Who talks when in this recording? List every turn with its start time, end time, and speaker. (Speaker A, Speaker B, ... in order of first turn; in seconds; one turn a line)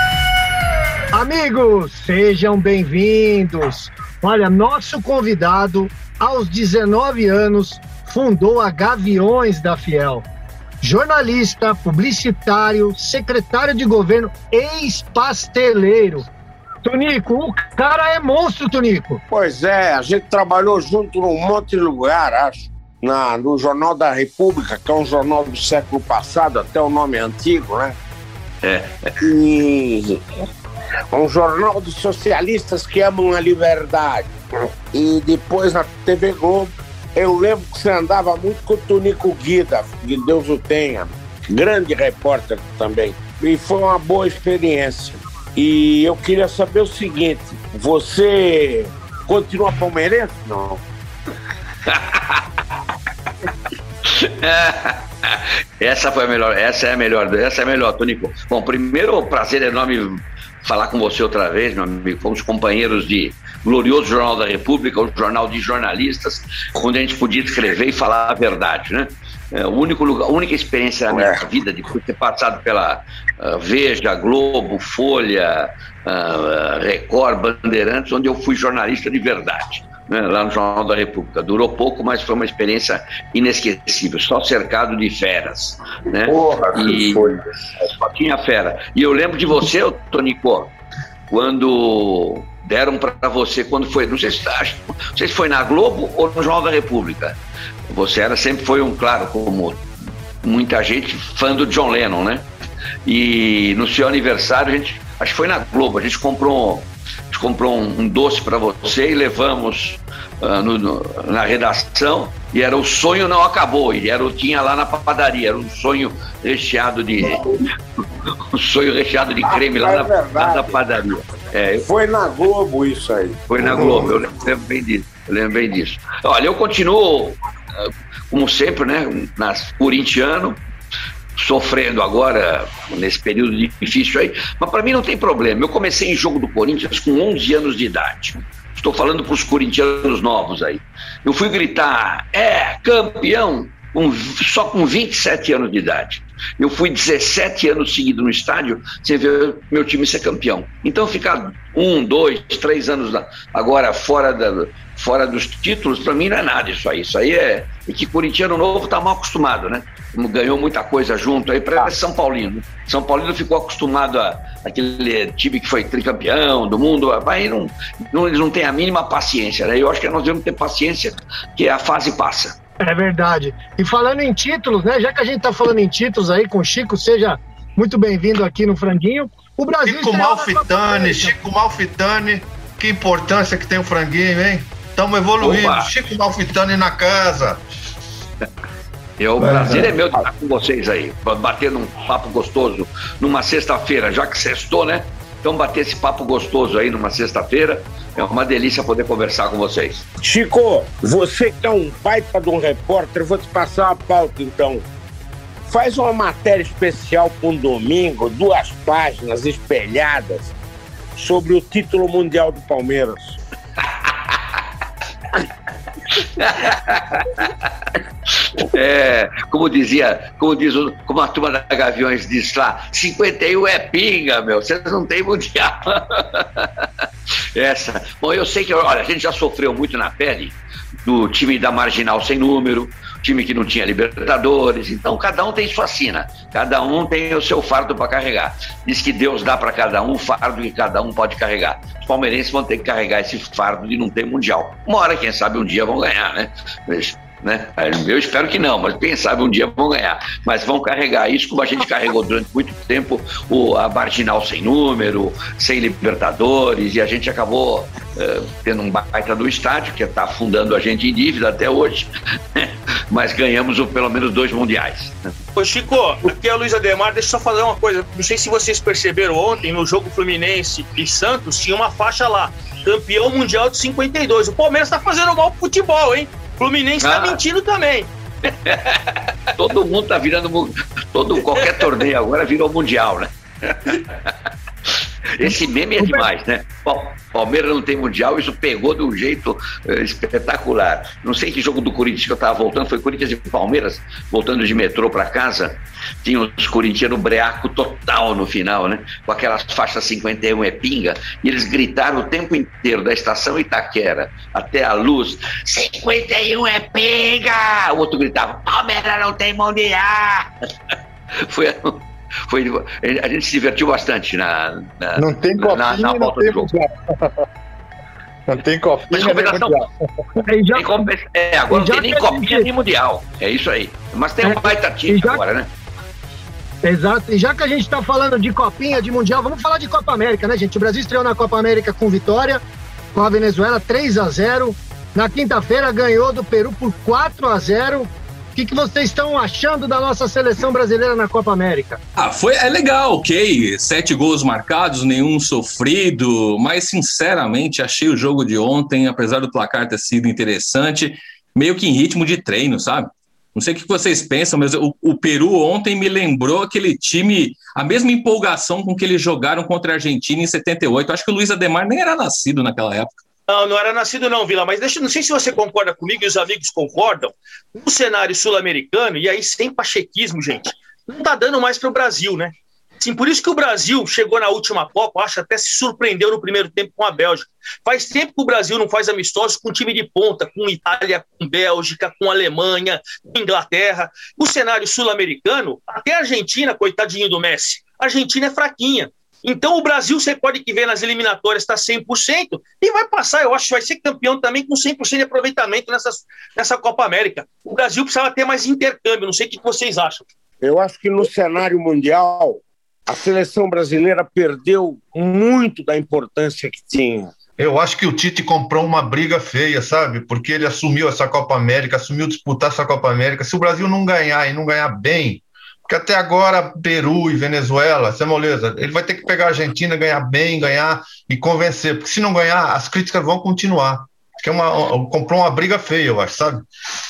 Speaker A: 1.1-10.2
Speaker A: 10.8-16.3
Speaker A: 16.8-19.2
Speaker B: 19.3-28.0
Speaker C: 28.6-29.1
Speaker B: 29.2-30.2
Speaker B: 31.1-34.3
Speaker B: 34.9-50.8
Speaker C: 51.9-52.4
Speaker C: 54.0-90.7
Speaker B: 71.1-71.4
Speaker C: 91.3-97.3
Speaker C: 97.9-99.8
Speaker C: 100.4-102.5
Speaker C: 103.0-117.4
Speaker C: 118.5-121.9
Speaker B: 119.4-120.8
Speaker B: 121.8-124.1
Speaker C: 123.5-130.6
Speaker C: 131.4-172.6
Speaker A: 172.8-181.3
Speaker D: 179.8-187.6
Speaker C: 185.4-185.9
Speaker C: 189.2-200.1
Speaker B: 189.4-190.2
Speaker B: 200.2-204.8
Speaker B: 205.7-210.5
Speaker B: 211.1-213.4
Speaker C: 216.3-217.5
Speaker C: 218.3-226.8
Speaker C: 227.5-265.3
Speaker E: 265.6-278.1
Speaker C: 277.0-277.4
Speaker C: 278.6-278.9
Speaker C: 279.6-284.3
Speaker C: 285.4-310.5
Speaker A: 285.4-286.2
Speaker C: 311.4-316.7
Speaker F: 315.2-317.3
Speaker F: 318.5-320.4
Speaker C: 319.1-319.8
Speaker A: 320.5-321.0
Speaker C: 320.7-325.7
Speaker A: 321.7-322.7
Speaker A: 324.4-325.4
Speaker A: 326.8-332.6
Speaker A: 333.1-342.0
Speaker G: 342.2-363.1
Speaker E: 363.5-400.2
Speaker B: 400.6-407.3
Speaker D: 407.6-426.6